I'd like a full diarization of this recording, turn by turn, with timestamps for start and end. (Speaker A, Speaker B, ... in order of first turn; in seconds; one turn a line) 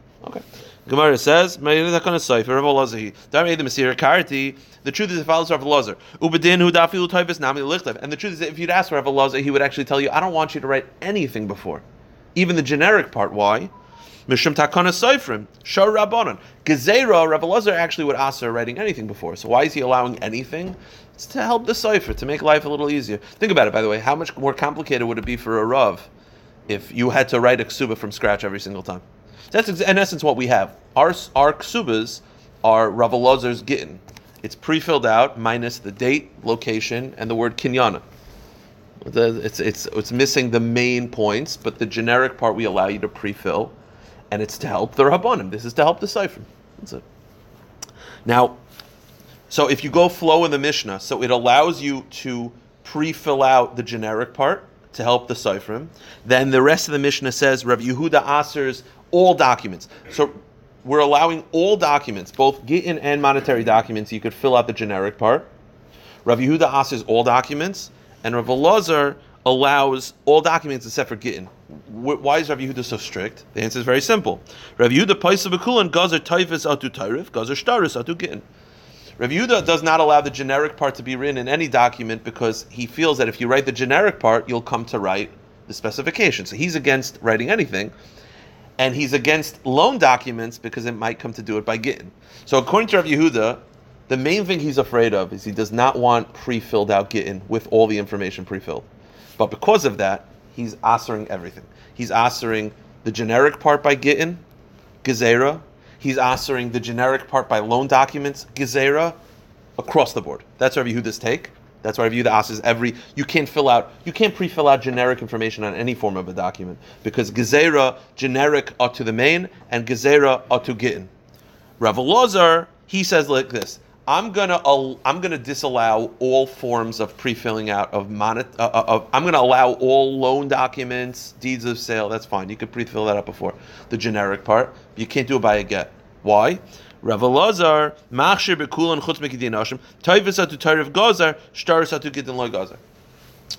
Speaker A: 0.2-11.8
Speaker A: 12.3-13.7
Speaker A: 14.3-26.1
Speaker A: 26.7-38.0
Speaker A: 39.0-43.7
Speaker A: 44.3-47.0
Speaker A: 48.2-48.6
Speaker A: 49.5-65.5
Speaker A: 66.2-78.4
Speaker A: 79.2-87.9
Speaker A: 88.8-98.9
Speaker A: 99.4-104.4
Speaker A: 105.0-109.2
Speaker A: 109.8-121.1
Speaker A: 121.8-142.8